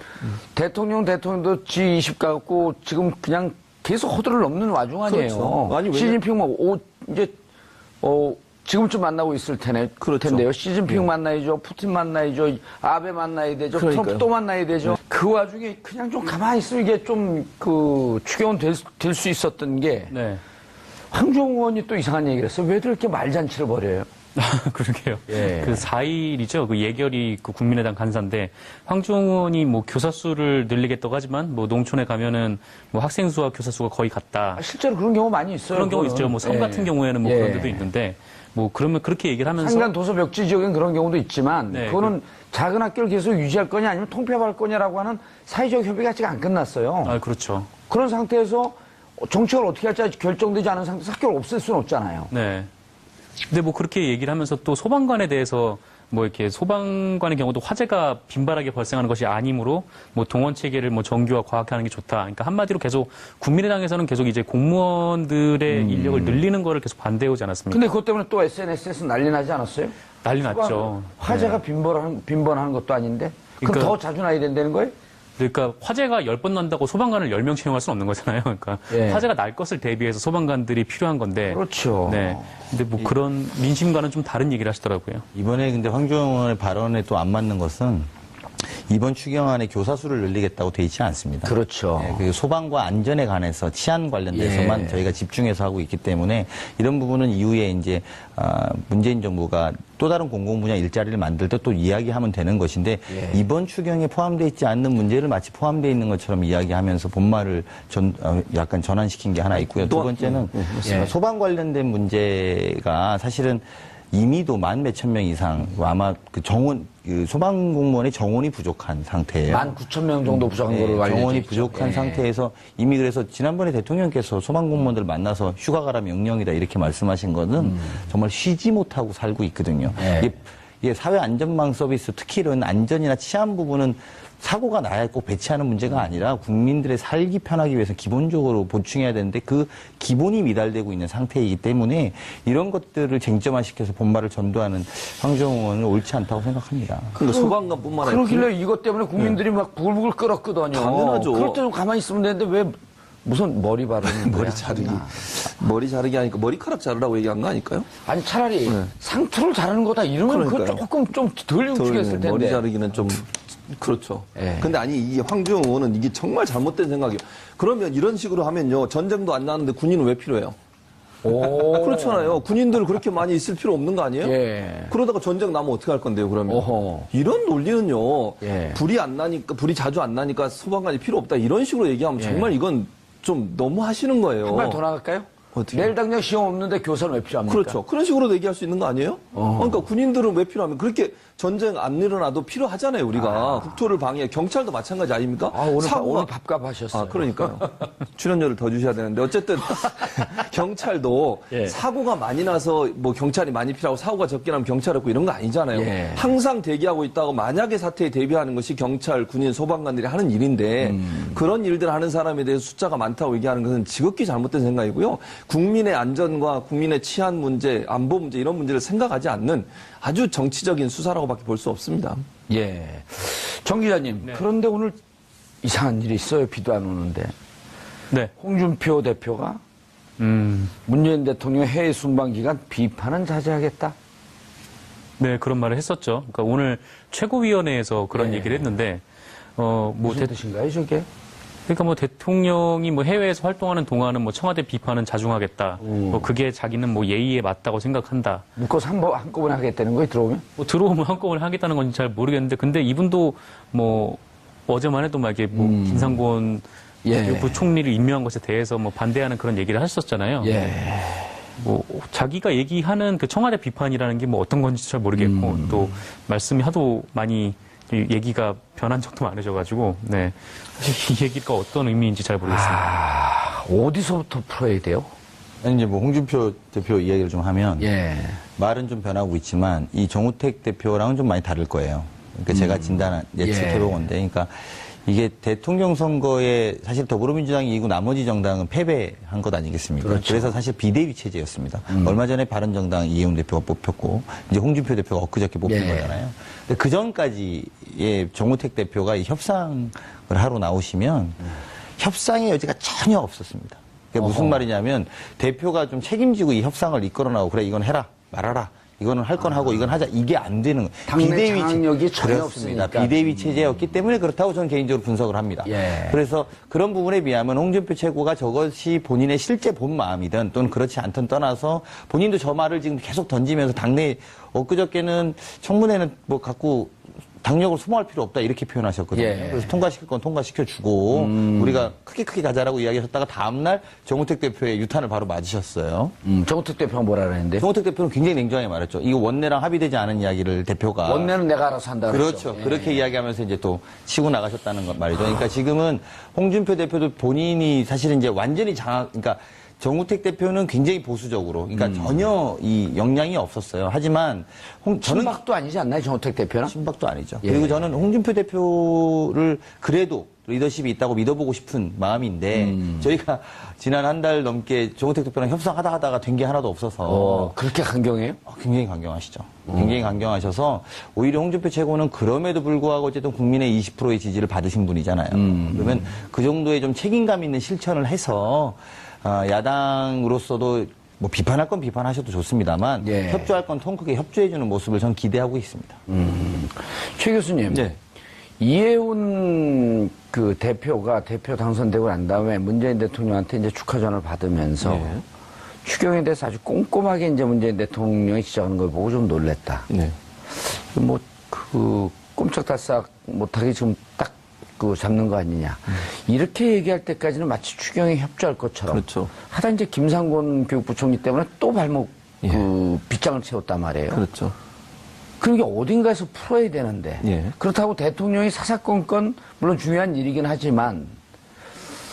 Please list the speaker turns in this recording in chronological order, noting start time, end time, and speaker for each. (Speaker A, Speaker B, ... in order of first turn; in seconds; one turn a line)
Speaker A: 0.4-7.3
Speaker B: 5.0-6.2
Speaker A: 8.0-20.1
Speaker B: 10.0-11.1
Speaker B: 13.7-14.3
Speaker C: 20.1-20.4
Speaker A: 21.1-24.1
Speaker C: 24.3-34.6
Speaker A: 25.3-25.9
Speaker A: 34.5-37.9
Speaker C: 35.7-39.9
Speaker A: 39.6-47.2
Speaker C: 41.7-42.1
Speaker C: 47.0-47.7
Speaker A: 47.9-52.3
Speaker C: 52.3-52.7
Speaker C: 53.4-67.8
Speaker A: 65.7-66.4
Speaker A: 67.7-74.9
Speaker C: 70.2-71.6
Speaker C: 73.6-74.0
Speaker C: 75.4-85.2
Speaker A: 78.9-79.3
Speaker A: 81.5-82.6
Speaker D: 85.3-88.1
Speaker D: 88.6-119.7
Speaker A: 91.4-92.2
Speaker A: 94.3-95.1
Speaker A: 103.1-103.4
Speaker B: 109.8-110.9
Speaker A: 110.8-111.1
Speaker A: 119.5-122.2
Speaker D: 120.3-147.2
Speaker A: 127.6-128.0
Speaker A: 130.0-130.3
Speaker B: 147.1-148.5
Speaker A: 147.2-155.2
Speaker B: 150.7-151.6
Speaker B: 154.0-157.9
Speaker A: 158.0-162.6
Speaker B: 160.3-160.8
Speaker B: 161.7-170.6
Speaker A: 164.3-164.7
Speaker A: 171.2-172.4
Speaker B: 171.3-174.3
Speaker A: 174.2-174.9
Speaker B: 174.9-184.8
Speaker A: 176.4-177.1
Speaker A: 178.4-178.8
Speaker A: 182.2-182.5
Speaker A: 184.4-187.8
Speaker B: 185.5-185.9
Speaker B: 187.4-196.3
Speaker A: 189.3-189.8
Speaker A: 193.1-193.8
Speaker A: 195.5-197.9
Speaker B: 196.9-222.2
Speaker A: 205.7-206.3
Speaker A: 210.8-211.4
Speaker A: 222.5-224.9
Speaker A: 225.6-227.3
Speaker A: 228.4-229.6
Speaker C: 230.2-230.7
Speaker A: 230.8-233.9
Speaker C: 235.2-239.0
Speaker A: 238.1-238.7
Speaker C: 239.6-240.3
Speaker A: 240.0-241.1
Speaker C: 241.7-248.4
Speaker A: 245.8-246.3
Speaker A: 248.6-250.4
Speaker C: 250.6-260.7
Speaker A: 255.5-256.2
Speaker A: 257.0-257.7
Speaker A: 260.4-261.4
Speaker C: 261.6-272.9
Speaker A: 265.1-266.0
Speaker A: 272.5-275.1
Speaker D: 275.6-277.9
Speaker A: 277.8-278.4
Speaker D: 278.6-336.1
Speaker A: 282.5-284.0
Speaker A: 290.0-290.6
Speaker A: 291.9-292.2
Speaker A: 295.6-296.2
Speaker A: 304.2-304.6
Speaker A: 309.4-309.9
Speaker A: 311.1-313.7
Speaker A: 315.6-316.2
Speaker A: 329.1-329.8
Speaker A: 331.1-331.9
Speaker A: 336.2-337.7
Speaker D: 337.6-341.3
Speaker A: 341.0-343.0
Speaker D: 342.1-355.4
Speaker A: 351.7-352.3
Speaker A: 355.0-356.7
Speaker D: 356.7-367.6
Speaker A: 357.4-357.9
Speaker A: 362.5-363.0
Speaker A: 367.0-368.4
Speaker D: 368.4-386.0
Speaker A: 369.7-370.0
Speaker A: 375.3-376.1
Speaker A: 383.0-383.5
Speaker A: 386.1-387.9
Speaker B: 387.7-388.0
Speaker A: 388.6-395.2
Speaker B: 394.8-395.2
Speaker A: 395.8-399.9
Speaker B: 399.9-400.1
Speaker A: 400.5-414.2
Speaker B: 408.9-409.3
Speaker B: 414.1-414.5
Speaker A: 415.4-421.2
Speaker B: 417.2-417.6